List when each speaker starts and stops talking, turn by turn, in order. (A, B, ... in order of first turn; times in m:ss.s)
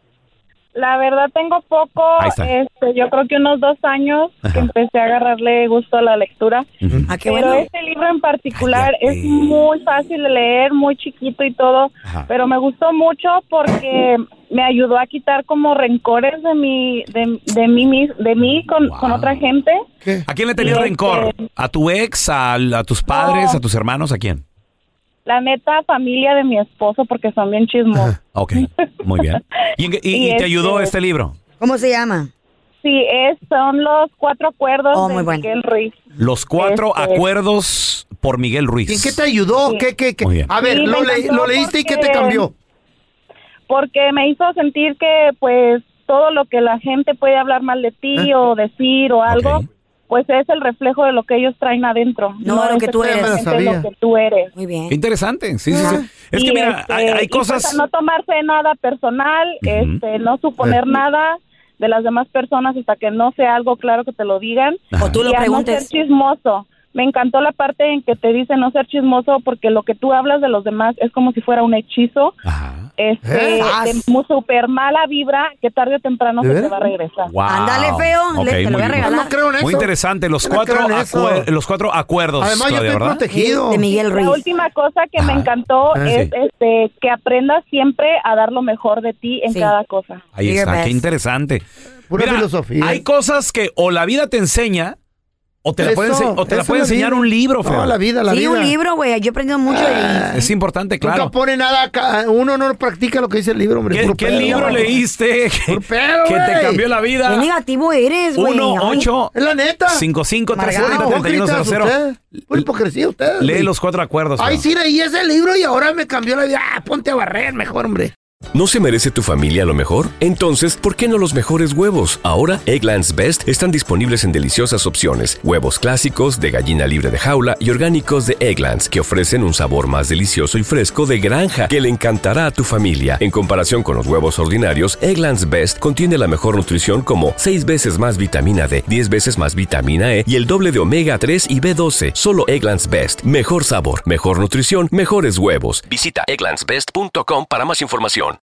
0:00.7-0:06.7 A
0:02.2-0:02.5 B
0:04.4-0:04.7 B
0:06.8-0:07.1 B
0:07.1-0:07.7 C
0:07.2-0:19.8 A
0:08.5-0:09.6 B
0:18.8-0:19.4 B
0:20.0-0:20.8 D
0:20.2-0:24.4 B
0:20.6-0:21.4 A
0:23.1-0:23.6 A
0:25.2-0:28.1 A
0:28.3-0:31.4 B
0:30.1-0:30.9 A
0:31.6-0:32.3 C
0:32.8-0:35.9 A
0:34.9-0:35.5 C
0:36.2-0:39.2 B
0:36.6-0:37.2 A
0:38.9-0:42.5 D
0:40.2-0:40.5 B
0:40.6-0:42.4 A
0:43.7-0:54.5 A
0:49.3-0:49.6 B
0:52.4-0:53.4 C
0:53.0-0:53.8 D
0:54.5-0:54.9 C
0:54.9-0:57.8 B
0:55.7-0:56.0 D
0:56.3-1:12.4 A
0:59.6-1:00.0 B
1:04.9-1:05.2 B
1:05.0-1:05.9 C
1:12.4-1:12.9 B
1:13.0-1:17.3 A
1:13.2-1:13.6 D
1:13.6-1:14.0 C
1:16.4-1:16.7 D
1:17.2-1:19.1 B
1:17.5-1:19.3 C
1:19.0-1:19.9 D
1:19.6-1:23.2 B
1:20.4-1:21.5 D
1:22.4-1:23.8 D
1:23.3-1:24.4 C
1:23.9-1:30.2 A
1:25.2-1:25.5 B
1:25.9-1:26.3 D
1:30.3-1:31.6 B
1:30.4-1:31.0 C
1:32.1-1:33.0 D
1:32.1-1:35.0 B
1:35.6-1:38.0 B
1:35.8-1:38.7 D
1:38.3-1:40.3 C
1:39.7-1:40.4 D
1:40.3-1:41.3 B
1:41.0-1:45.0 D
1:43.9-1:47.5 B
1:44.4-1:44.9 C
1:45.7-1:46.8 D
1:47.3-1:49.1 C
1:48.3-1:49.3 B
1:49.3-1:50.0 D
1:49.9-1:52.7 B
1:50.5-1:51.2 C
1:50.6-1:53.7 D
1:53.4-1:54.6 B
1:54.4-1:58.1 D
1:58.5-2:28.4 E